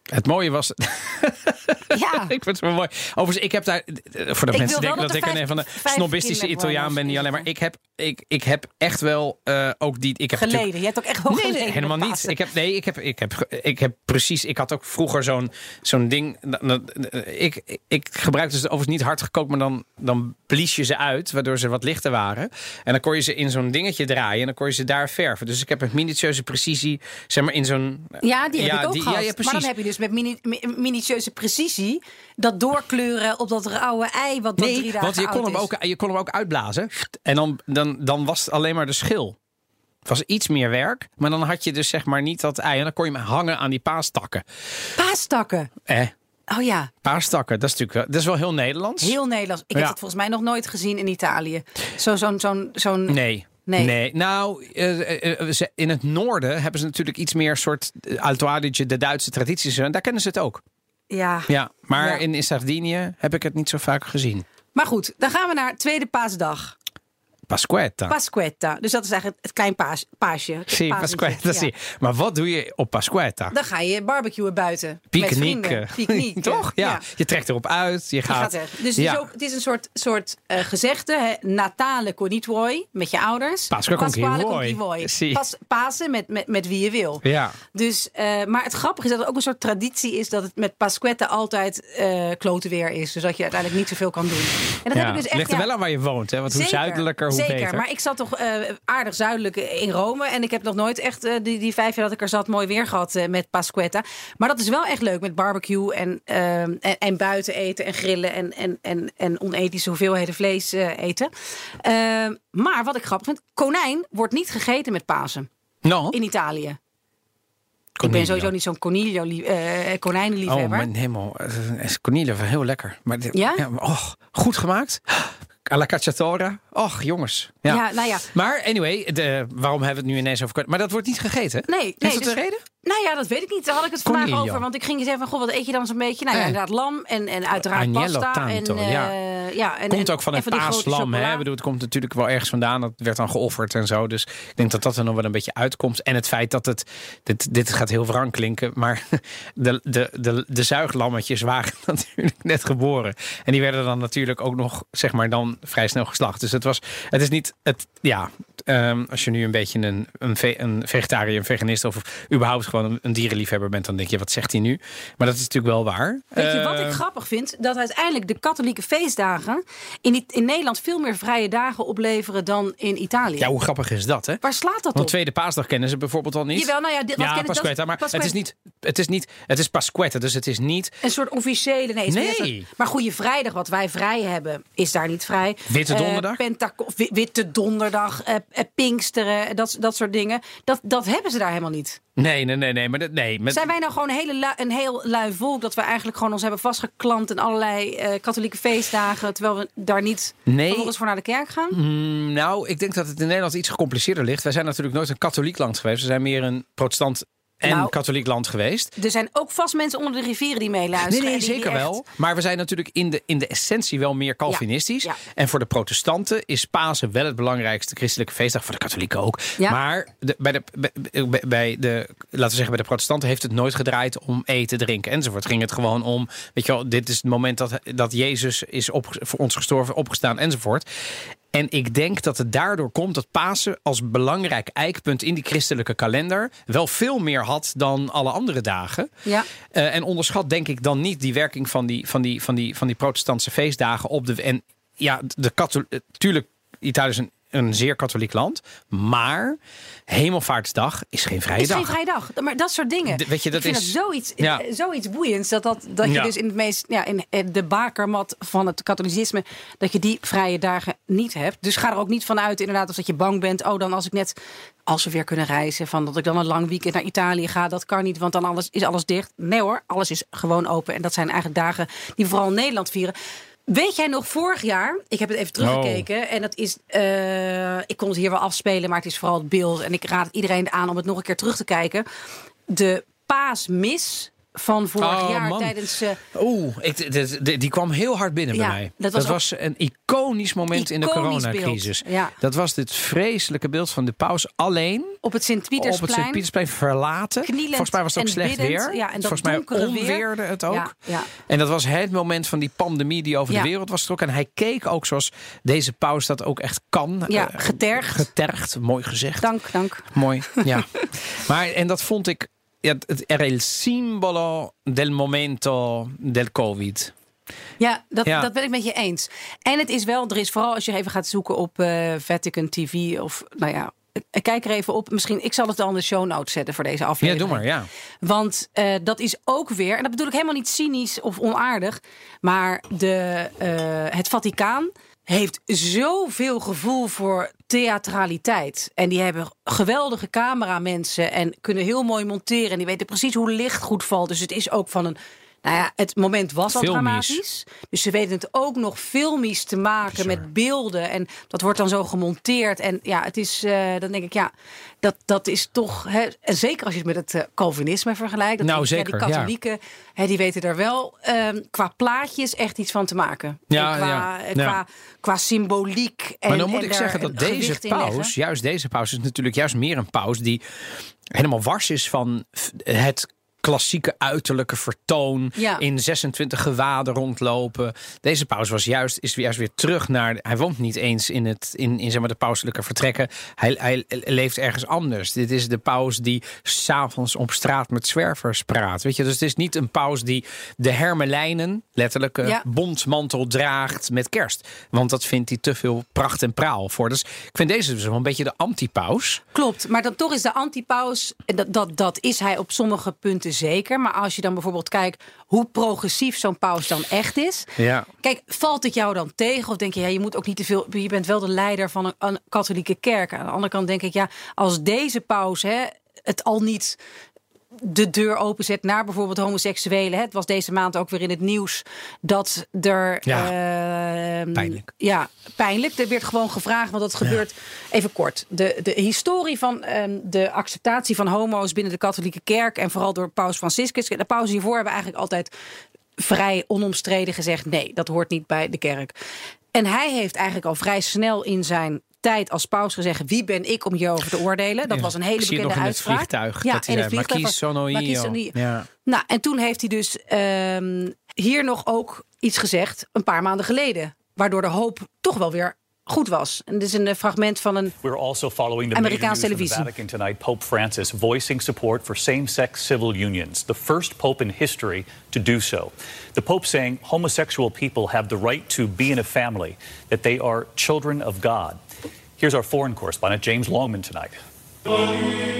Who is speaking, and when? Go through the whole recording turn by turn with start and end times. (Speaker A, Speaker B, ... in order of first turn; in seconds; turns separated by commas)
Speaker A: 0.1-10.7, Speaker B: 1.9-2.3, Speaker B: 4.5-7.5, Speaker B: 10.3-12.3, Speaker A: 11.3-29.7, Speaker B: 28.2-35.7, Speaker A: 34.6-39.4, Speaker A: 40.0-44.5, Speaker B: 45.0-45.7, Speaker A: 45.9-46.1, Speaker B: 46.5-46.9, Speaker A: 47.0-49.1, Speaker B: 49.0-53.9, Speaker A: 53.1-60.6, Speaker B: 61.1-62.2, Speaker A: 61.5-64.4, Speaker B: 64.7-66.7, Speaker A: 67.5-68.2, Speaker B: 68.1-71.7, Speaker A: 70.7-73.5, Speaker B: 73.5-77.0, Speaker A: 75.1-79.3, Speaker B: 78.2-95.7, Speaker A: 83.7-85.4, Speaker A: 87.2-87.6, Speaker A: 94.9-97.8, Speaker B: 96.5-111.3, Speaker B: 111.8-115.5, Speaker A: 115.8-116.2, Speaker B: 116.1-116.8, Speaker A: 118.0-118.5, Speaker B: 118.0-120.9, Speaker A: 120.5-132.6, Speaker B: 123.3-123.6, Speaker B: 127.7-128.3, Speaker B: 131.7-141.4, Speaker A: 134.0-134.6, Speaker A: 137.6-139.1, Speaker A: 139.9-167.0, Speaker B: 166.3-173.5, Speaker A: 173.4-174.4, Speaker B: 174.4-175.1, Speaker A: 174.9-180.9, Speaker B: 176.5-178.3, Speaker B: 181.0-192.0, Speaker A: 182.1-182.7, Speaker A: 185.7-186.4, Speaker A: 192.2-193.7, Speaker B: 193.5-201.8, Speaker A: 200.5-200.9, Speaker A: 201.7-208.9, Speaker B: 207.6-207.9, Speaker B: 209.0-211.9, Speaker A: 211.0-230.9, Speaker B: 214.5-215.2, Speaker A: 231.5-239.1, Speaker A: 239.7-251.9, Speaker B: 251.6-264.4, Speaker A: 253.1-254.6, Speaker A: 256.0-256.3, Speaker B: 264.9-273.1, Speaker B: 273.7-282.0, Speaker A: 275.6-276.1, Speaker B: 282.7-286.2, Speaker A: 285.0-285.8, Speaker A: 286.3-295.2, Speaker B: 288.5-289.4, Speaker B: 290.7-292.4, Speaker B: 295.2-296.4, Speaker A: 295.8-309.5, Speaker B: 297.4-301.3, Speaker B: 307.3-308.3, Speaker B: 309.4-310.7, Speaker A: 310.1-317.1, Speaker B: 317.8-327.6, Speaker A: 327.2-327.9, Speaker B: 328.2-354.5, Speaker A: 346.7-347.4, Speaker A: 350.1-350.4, Speaker B: 355.0-368.3, Speaker A: 358.6-359.5, Speaker A: 363.7-364.8, Speaker A: 366.5-370.6, Speaker A: 371.3-399.4, Speaker B: 375.6-375.8, Speaker B: 399.5-407.7, Speaker A: 407.8-408.1, Speaker B: 408.2-417.0, Speaker B: 417.8-435.5, Speaker A: 423.2-423.5, Speaker A: 424.5-424.9, Speaker B: 436.2-439.1, Speaker B: 439.7-448.5, Speaker A: 444.9-448.9, Speaker B: 449.0-457.9, Speaker C: 458.0-471.8, Speaker B: 458.9-459.9, Speaker C: 472.4-474.4